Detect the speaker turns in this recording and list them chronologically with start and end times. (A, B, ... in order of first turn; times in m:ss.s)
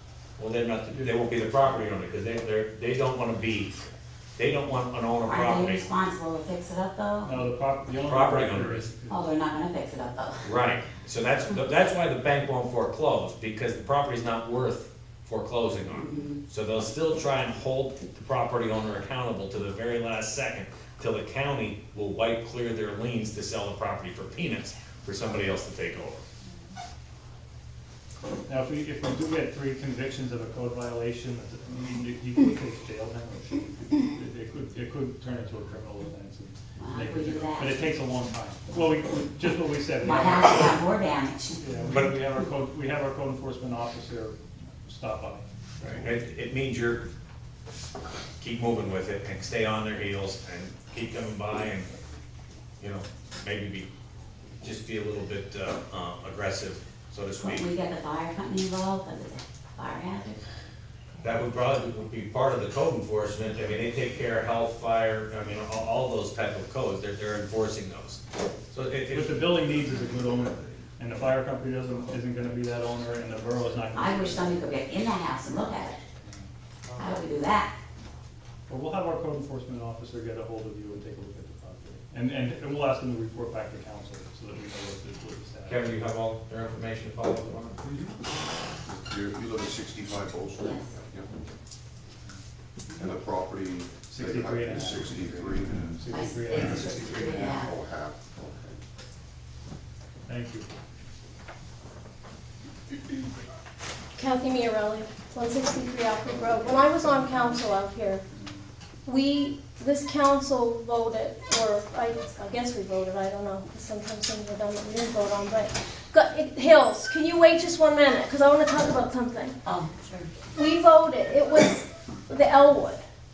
0:00.4-0:03.8 A
0:04.4-0:05.9 A
0:05.2-0:07.4 B
0:07.2-0:09.3 C
0:08.0-0:08.9 A
0:09.1-0:10.5 B
0:10.4-0:26.2 A
0:15.9-0:16.4 B
0:28.5-0:40.8 C
0:36.8-0:37.9 B
0:40.0-0:41.6 B
0:41.6-0:46.2 C
0:41.8-0:42.2 A
0:45.8-0:47.0 A
0:48.4-0:51.9 A
0:52.8-0:53.9 A
0:54.6-0:57.7 A
0:57.4-1:00.4 B
1:01.2-1:09.4 A
1:09.1-1:14.7 C
1:09.6-1:10.8 D
1:12.5-1:13.4 D
1:13.9-1:16.0 B
1:16.2-1:16.5 C
1:17.0-1:17.7 B
1:18.7-1:25.8 C
1:25.7-1:27.8 A
1:28.8-1:31.3 D
1:30.6-1:31.0 B
1:33.0-1:35.9 D
1:34.1-1:37.6 C
1:36.1-1:37.7 B
1:36.6-1:38.4 D
1:40.3-1:40.7 C
1:44.2-1:48.2 E
1:49.0-1:59.6 E
1:59.7-2:00.3 B
2:00.5-2:03.0 E